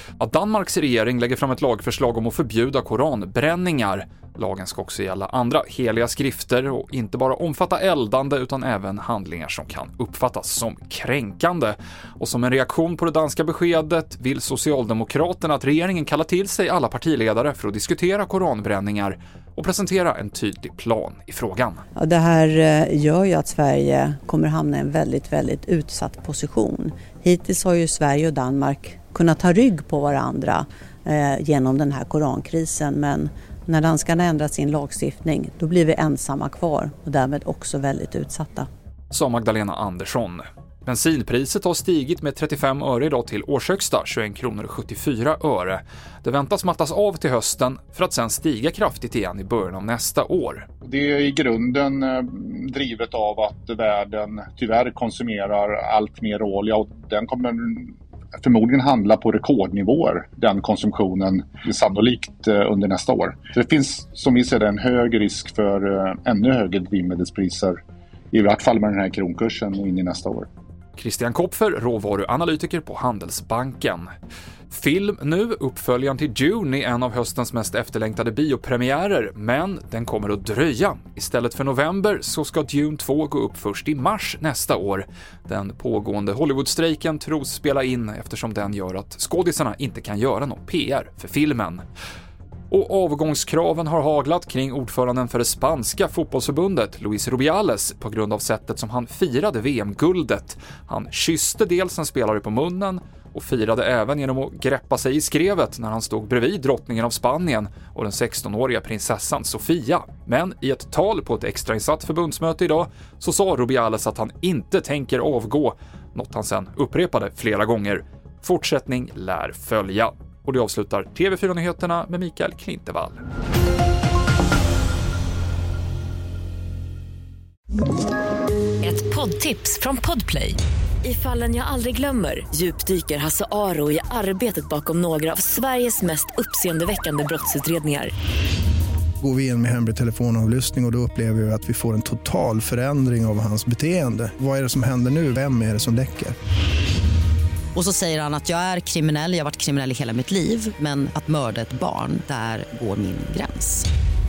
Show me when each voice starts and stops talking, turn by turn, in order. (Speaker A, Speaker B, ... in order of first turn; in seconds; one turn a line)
Speaker A: 0.2-21.8
Speaker B: 21.9-38.7
Speaker A: 39.1-50.6
Speaker C: 50.8-67.8
Speaker C: 68.3-70.5
Speaker A: 71.0-74.1
Speaker A: 74.7-91.8
Speaker A: 92.7-123.2
Speaker D: 128.8-138.1
Speaker E: 139.2-146.3
Speaker F: 147.7-153.9